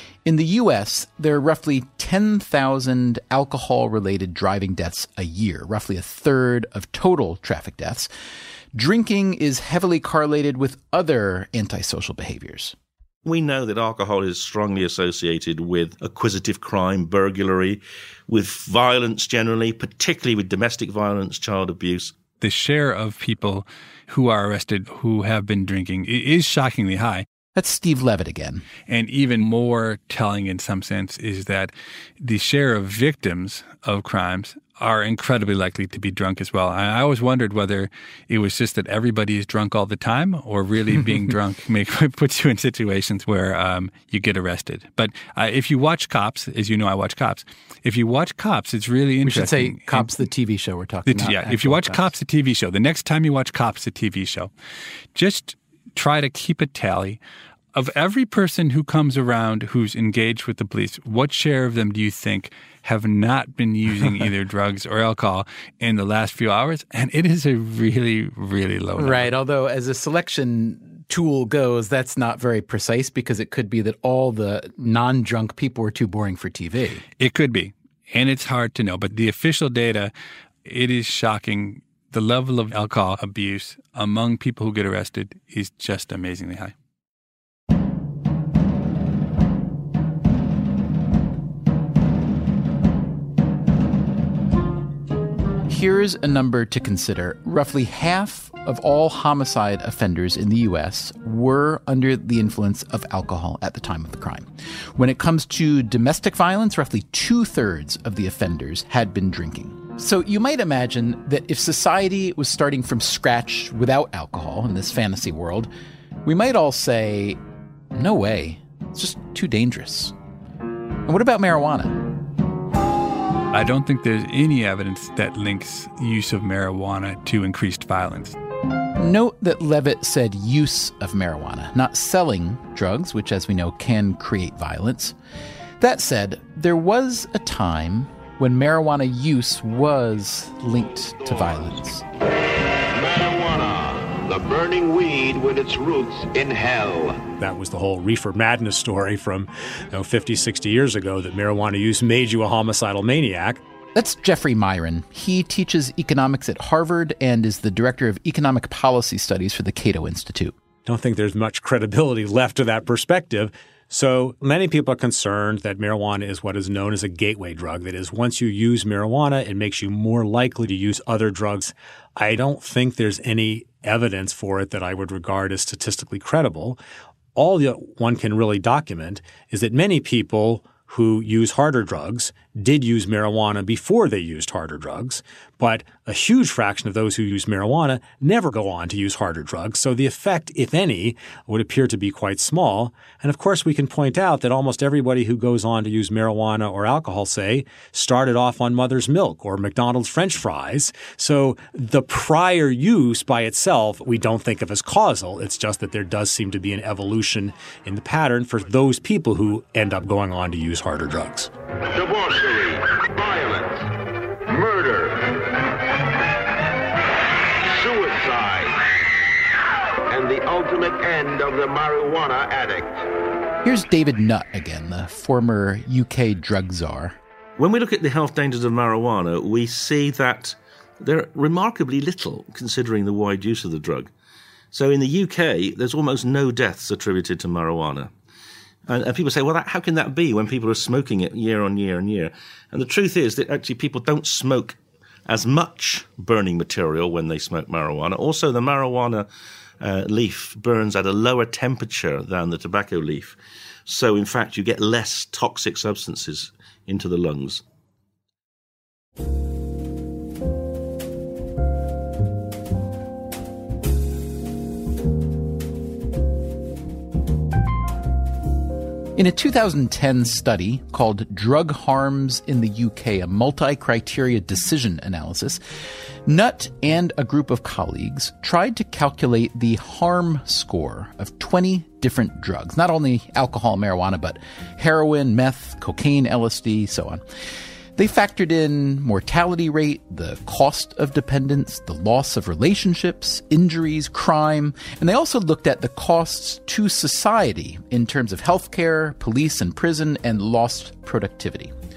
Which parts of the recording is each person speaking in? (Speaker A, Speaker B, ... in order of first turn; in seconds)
Speaker A: 0.2-8.1, 8.7-12.7, 27.5-28.6, 49.2-52.1, 69.0-77.0, 95.7-115.7, 116.2-117.4, 117.9-120.1, 121.0-122.0, 129.0-135.1, 135.8-142.0, 153.9-160.5, 223.6-227.1, 269.1-275.6, 276.2-287.2, 287.9-301.7
Speaker B: 13.2-22.1, 227.6-234.1, 234.7-238.1, 238.9-249.3, 249.8-257.6
Speaker C: 22.4-27.2, 28.9-50.2, 51.1-54.5, 55.1-57.2, 57.7-69.3, 77.2-80.1, 80.6-86.7, 123.5-128.3
Speaker D: 142.9-147.2, 211.9-213.9, 214.4-215.4, 217.6-218.9, 220.1-223.0
Speaker E: 147.4-153.6, 160.8-176.8, 177.3-211.5